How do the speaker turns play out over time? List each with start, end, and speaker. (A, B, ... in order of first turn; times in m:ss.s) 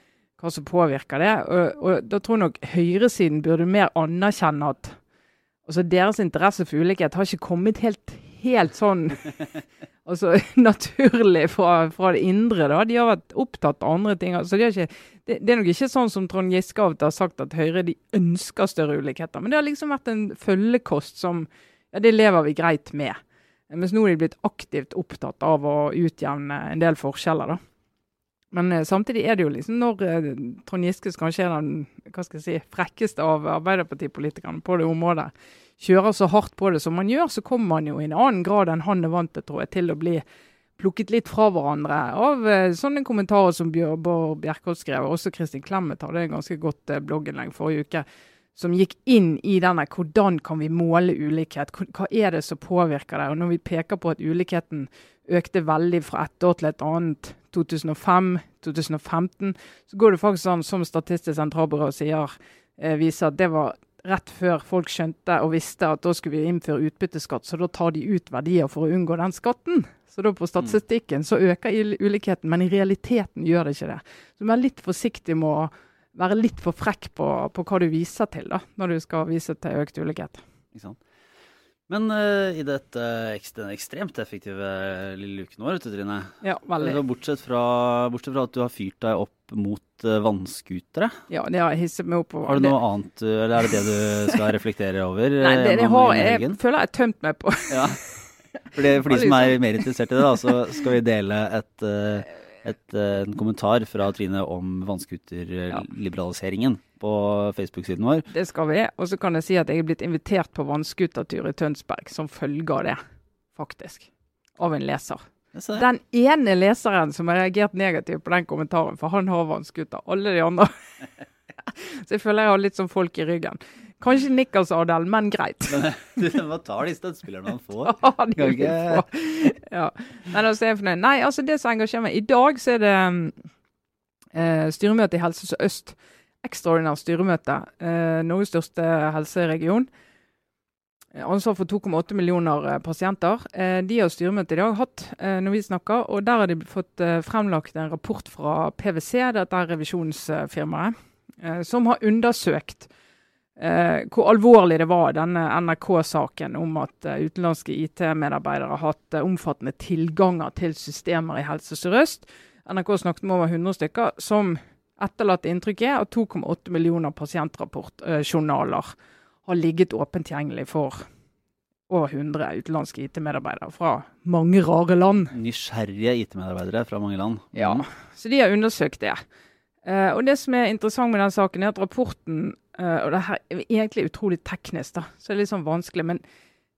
0:00.4-0:05.0 A
0:05.6-0:09.5 A
0:10.0-0:23.2 A
0:23.7-0:27.6 A
0:28.5-0:40.2 A
0:40.8-1:20.4 A
1:20.7-1:21.0 B
1:21.9-1:31.2 B
1:26.4-1:27.0 A
1:31.3-1:32.8 A
1:32.5-1:36.6 B
1:35.4-1:38.3 A
1:37.7-1:38.0 B
1:38.7-1:48.2 B
1:38.9-1:40.5 A
1:48.3-1:53.0 A
1:53.5-1:55.2 A
1:55.5-1:55.8 B
1:55.7-2:00.7 A
2:01.6-2:05.9 A
2:05.7-2:09.0 B
2:07.8-2:13.4 A
2:14.3-2:19.9 A
2:21.1-2:32.9 A
2:33.6-2:48.9 A
2:49.4-2:51.0 A
2:51.9-2:55.3 A
2:55.3-2:57.8 B
2:57.5-2:59.2 A
2:59.8-3:06.2 A